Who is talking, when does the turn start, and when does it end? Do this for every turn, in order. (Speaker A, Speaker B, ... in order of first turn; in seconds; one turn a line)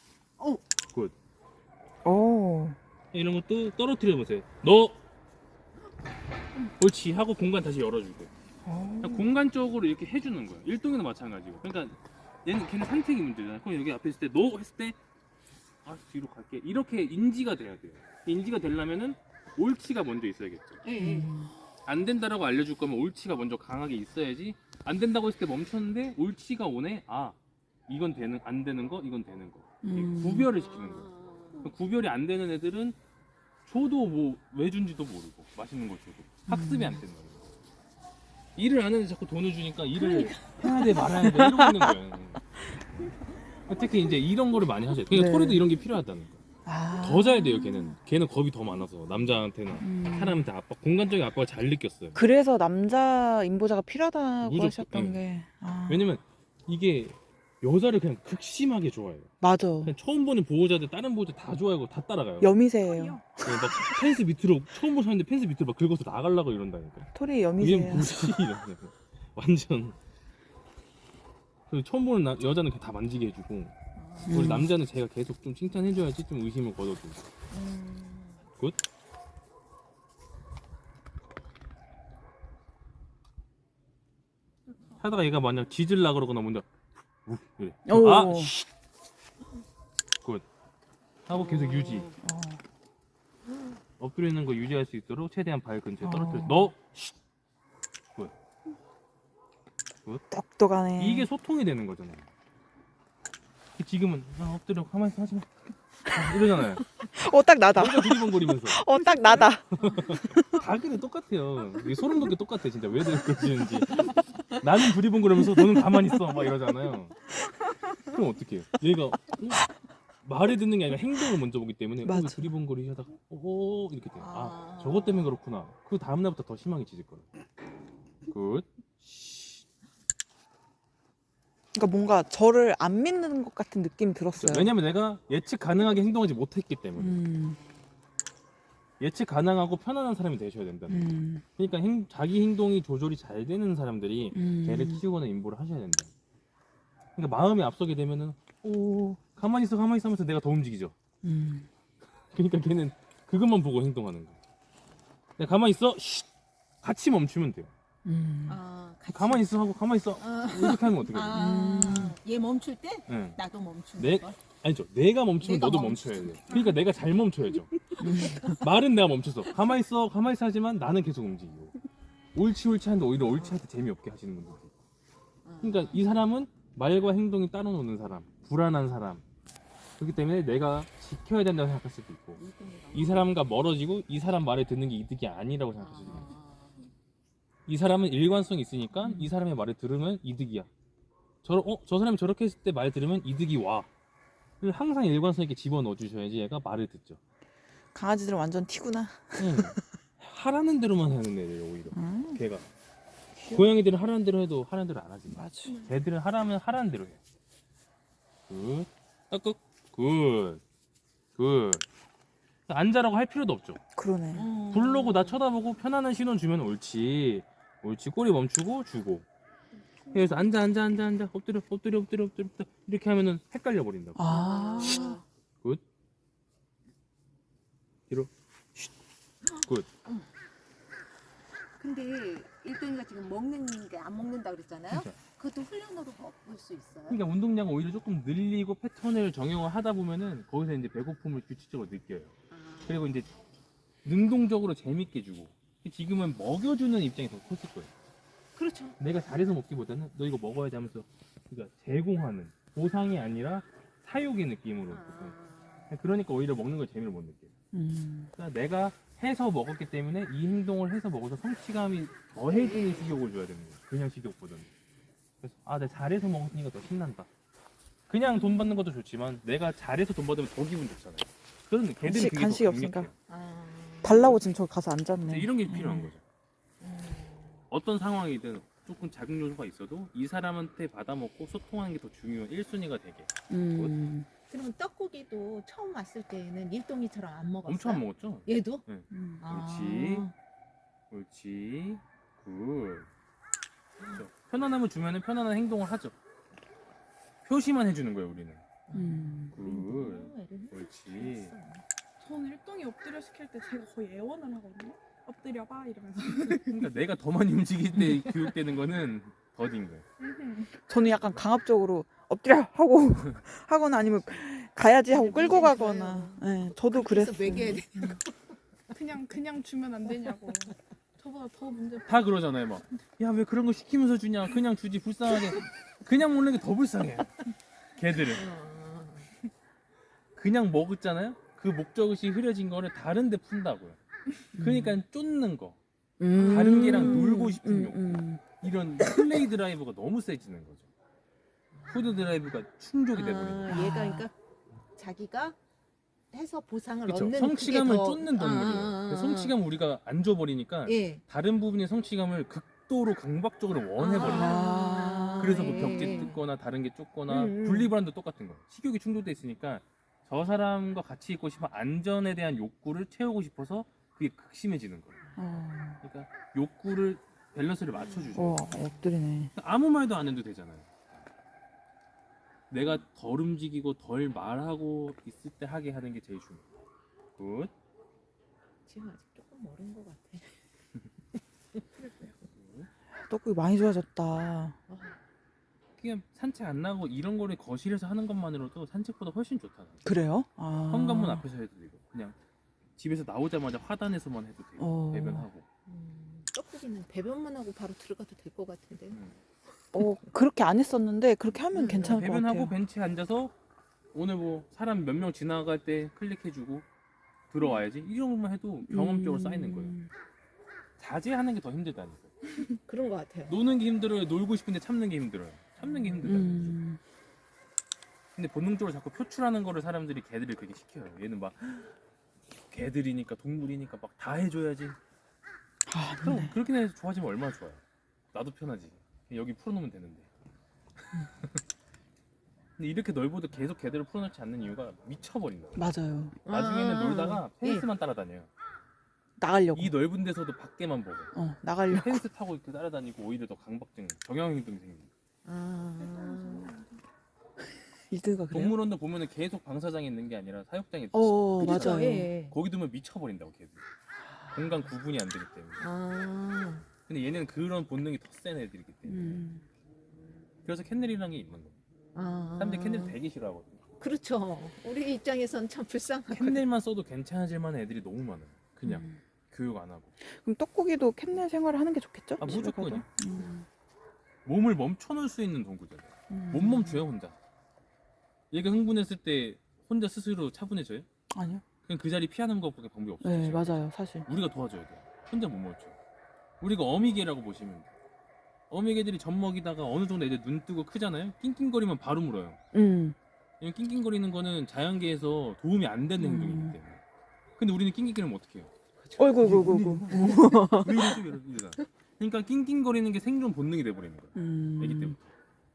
Speaker A: 2.0-2.8
Speaker B: 3.1-5.0
Speaker B: 6.7-8.3
Speaker A: 8.6-9.3
Speaker B: 9.0-15.0
Speaker B: 15.8-20.8
Speaker C: 20.8-21.4
Speaker A: 20.9-21.5
Speaker B: 21.9-27.4
Speaker B: 27.9-33.0
Speaker A: 29.8-30.5
Speaker C: 30.6-31.7
Speaker B: 33.6-37.5
Speaker A: 36.5-37.0
Speaker B: 38.5-42.4
Speaker A: 40.6-42.0
Speaker B: 43.7-46.4
Speaker A: 45.1-45.7
Speaker A: 46.6-48.0
Speaker B: 47.0-52.2
Speaker A: 49.8-50.4
Speaker A: 52.1-56.1
Speaker B: 54.4-55.2
Speaker B: 55.9-59.3
Speaker A: 59.4-59.9
Speaker B: 59.8-62.5
Speaker A: 62.4-64.1
Speaker D: 62.8-63.3
Speaker B: 63.5-70.0
Speaker A: 67.1-68.5
Speaker B: 71.7-73.7
Speaker C: 74.0-74.6
Speaker A: 74.3-74.7
Speaker B: 74.3-77.3
Speaker C: 77.5-78.4
Speaker B: 85.0-86.7
Speaker B: 87.2-88.7
Speaker A: 87.9-88.5
Speaker B: 91.3-92.1
Speaker C: 91.3-92.2
Speaker A: 92.2-92.6
Speaker B: 94.0-97.2
Speaker A: 96.0-96.7
Speaker A: 100.3-101.3
Speaker B: 101.0-102.3
Speaker B: 103.8-105.5
Speaker B: 106.0-106.8
Speaker A: 106.2-110.7
Speaker B: 107.8-108.8
Speaker B: 109.8-117.2
Speaker A: 115.3-116.6
Speaker B: 118.1-119.7
Speaker B: 120.2-127.2
Speaker A: 122.0-122.5
Speaker C: 124.2-125.3
Speaker B: 128.3-129.6
Speaker A: 131.7-134.7
Speaker B: 134.4-137.2
Speaker A: 137.0-137.6
Speaker B: 139.0-146.1
Speaker A: 140.9-141.4
Speaker A: 144.3-145.0
Speaker B: 147.2-150.9
Speaker A: 148.7-149.2
Speaker A: 151.2-151.7
Speaker B: 152.3-154.4
Speaker B: 155.4-156.3
Speaker B: 156.8-157.7
Speaker A: 158.1-158.6
Speaker C: 158.5-159.6
Speaker B: 159.1-161.4
Speaker C: 160.2-164.4
Speaker A: 161.3-162.2
Speaker B: 163.1-163.4
Speaker B: 164.0-167.7
Speaker C: 165.4-166.8
Speaker C: 167.7-168.6
Speaker A: 168.0-168.6
Speaker B: 168.6-171.7
Speaker B: 172.3-174.7
Speaker C: 173.3-173.6
Speaker C: 175.4-176.0
Speaker B: 175.6-179.2
Speaker B: 180.0-182.4
Speaker C: 182.4-183.4
Speaker B: 182.9-186.3
Speaker C: 185.8-186.8
Speaker B: 187.7-190.7
Speaker A: 189.0-189.3
Speaker B: 191.4-193.9
Speaker B: 194.6-197.2
Speaker A: 197.9-200.0
Speaker B: 199.4-202.7
Speaker A: 201.9-202.4
Speaker A: 203.4-203.8
Speaker B: 203.5-207.2
Speaker A: 205.3-205.8
Speaker D: 205.7-205.9
Speaker B: 208.5-210.6
Speaker B: 211.4-211.8
Speaker B: 212.7-213.8
Speaker A: 213.9-214.5
Speaker C: 214.3-215.4
Speaker B: 214.7-219.2
Speaker D: 219.7-220.5
Speaker B: 220.1-224.3
Speaker A: 224.2-225.2
Speaker C: 224.2-225.2
Speaker B: 228.1-228.9
Speaker B: 229.6-229.9
Speaker C: 231.8-237.2
Speaker B: 234.9-235.2
Speaker B: 237.1-242.3
Speaker C: 242.5-243.1
Speaker B: 242.9-243.3
Speaker B: 244.0-247.9
Speaker C: 248.6-249.0
Speaker B: 249.0-255.4
Speaker C: 254.9-255.9
Speaker B: 255.9-257.5
Speaker A: 257.7-258.3
Speaker B: 258.4-264.7
Speaker C: 262.5-263.1
Speaker B: 265.4-267.3
Speaker B: 268.1-273.1
Speaker A: 272.0-273.1
Speaker C: 273.3-274.2
Speaker A: 274.0-276.1
Speaker B: 275.2-276.2
Speaker C: 276.8-277.6
Speaker B: 277.7-284.0
Speaker A: 283.5-284.3
Speaker C: 284.5-288.9
Speaker B: 287.7-290.3
Speaker A: 289.1-289.4
Speaker C: 289.4-290.3
Speaker B: 291.1-293.1
Speaker B: 294.1-296.1
Speaker B: 297.4-298.6
Speaker C: 298.9-301.8
Speaker A: 298.9-299.6
Speaker B: 299.5-301.6
Speaker D: 302.2-306.9
Speaker B: 306.5-310.1
Speaker C: 308.0-308.5
Speaker D: 310.2-310.7
Speaker A: 310.8-318.2
Speaker C: 315.1-318.6
Speaker D: 318.9-322.3
Speaker B: 322.1-328.5
Speaker C: 328.3-329.3
Speaker B: 330.4-334.0
Speaker B: 334.6-335.8
Speaker A: 334.6-335.0
Speaker A: 336.2-338.4
Speaker C: 336.4-337.3
Speaker B: 336.4-340.9
Speaker A: 339.0-339.2
Speaker B: 341.9-343.8
Speaker C: 343.1-344.4
Speaker A: 343.7-344.2
Speaker C: 344.9-345.6
Speaker C: 346.3-349.6
Speaker B: 347.1-354.7
Speaker C: 350.8-351.2
Speaker C: 353.9-356.4
Speaker A: 354.2-356.2
Speaker B: 355.4-365.2
Speaker C: 357.3-357.9
Speaker A: 365.4-366.0
Speaker B: 366.0-368.7
Speaker C: 368.1-368.4
Speaker A: 368.3-369.5
Speaker B: 369.6-371.2
Speaker B: 372.7-376.6
Speaker B: 377.4-377.7
Speaker C: 378.9-380.6
Speaker D: 382.0-382.4
Speaker B: 382.5-382.9
Speaker A: 383.2-384.8
Speaker C: 384.9-385.2
Speaker B: 386.0-390.1
Speaker A: 390.0-391.4
Speaker B: 390.9-392.4
Speaker B: 393.0-395.6
Speaker A: 394.8-395.5
Speaker C: 395.9-399.2
Speaker B: 399.1-399.4
Speaker A: 399.9-402.8
Speaker C: 401.7-402.2
Speaker B: 402.0-403.5
Speaker B: 404.1-406.9
Speaker B: 407.5-409.9
Speaker A: 408.9-410.1
Speaker B: 411.0-412.3
Speaker C: 412.9-413.6
Speaker B: 413.5-416.8
Speaker C: 415.8-416.3
Speaker A: 416.2-417.0
Speaker B: 418.4-421.9
Speaker B: 422.7-425.0
Speaker A: 425.9-426.6
Speaker B: 426.2-427.8
Speaker B: 428.3-430.3
Speaker B: 431.0-431.6
Speaker B: 432.8-435.9
Speaker A: 435.8-436.4
Speaker C: 436.4-437.9
Speaker B: 436.5-438.5
Speaker A: 439.4-439.9
Speaker B: 439.7-441.3
Speaker A: 441.3-442.2
Speaker B: 441.9-445.1
Speaker C: 445.4-446.7
Speaker D: 446.0-447.0
Speaker A: 448.1-448.8
Speaker B: 448.5-453.8
Speaker A: 451.1-452.3
Speaker C: 451.6-452.6
Speaker B: 454.5-455.9
Speaker C: 455.8-456.9
Speaker B: 457.1-459.4
Speaker A: 459.1-459.6
Speaker B: 460.6-461.8
Speaker C: 462.1-463.2
Speaker B: 462.6-463.8
Speaker C: 464.0-466.7
Speaker B: 466.3-470.1
Speaker A: 468.8-469.2
Speaker A: 470.3-473.7
Speaker B: 472.4-473.5
Speaker B: 474.4-477.4
Speaker A: 476.3-477.0
Speaker B: 478.5-481.1
Speaker A: 481.3-481.6
Speaker B: 481.9-485.9
Speaker A: 483.2-484.3
Speaker B: 486.6-487.9
Speaker B: 488.7-492.6
Speaker A: 492.7-493.2
Speaker B: 493.6-497.0
Speaker A: 496.2-496.8
Speaker B: 497.6-498.7
Speaker C: 499.1-499.4
Speaker A: 499.2-501.2
Speaker B: 499.4-505.3
Speaker A: 504.4-505.2